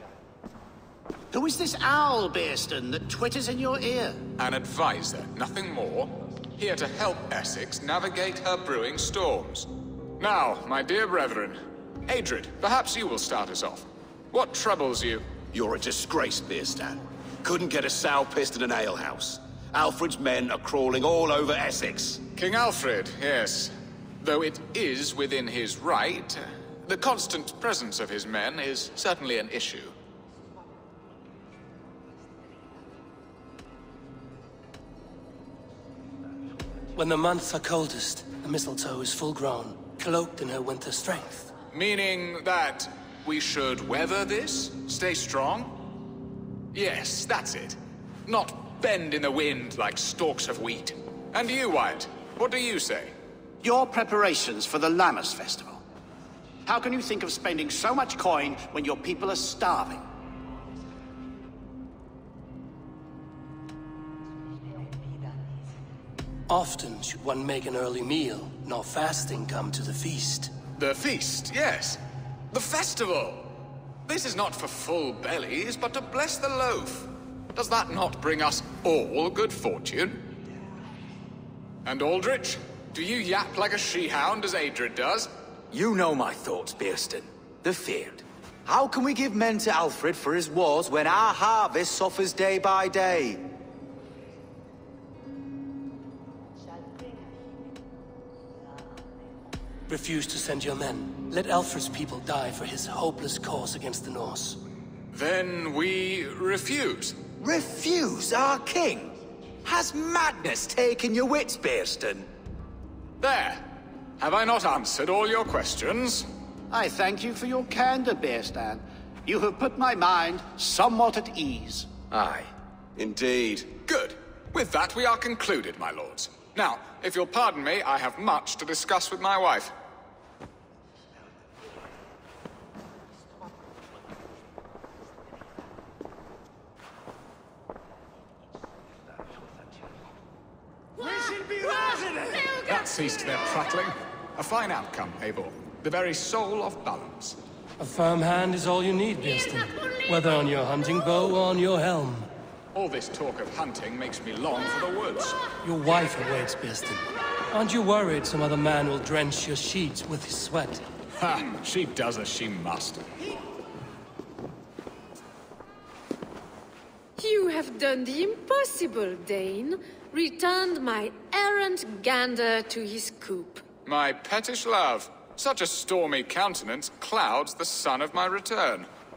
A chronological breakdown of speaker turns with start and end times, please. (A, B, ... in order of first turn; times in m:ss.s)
0:01.3-0:04.2 A
0:04.4-0:15.4 B
0:15.5-0:22.3 C
0:22.4-0:30.0 B
0:37.0-0:41.5 D
0:41.7-0:45.8 B
0:46.7-0:53.1 B
0:53.6-0:55.8 A
0:56.7-1:00.0 A
1:06.5-1:10.5 D
1:10.8-1:20.2 B
1:21.8-1:25.3 B
1:25.7-1:33.4 E
1:39.9-1:44.6 D
1:45.1-1:47.2 B
1:47.4-1:52.3 E
1:53.2-1:53.6 B
1:54.2-1:56.3 B
1:56.7-2:01.9 A
2:02.1-2:02.5 E
2:03.0-2:03.8 C
2:03.7-2:09.7 B
2:21.2-2:22.3 D
2:22.5-2:27.4 B
2:27.8-2:32.3 D
2:32.8-2:35.4 B
2:35.6-2:40.8 D
2:41.2-2:43.1 B
2:47.2-2:53.7 F
2:53.8-2:58.9 B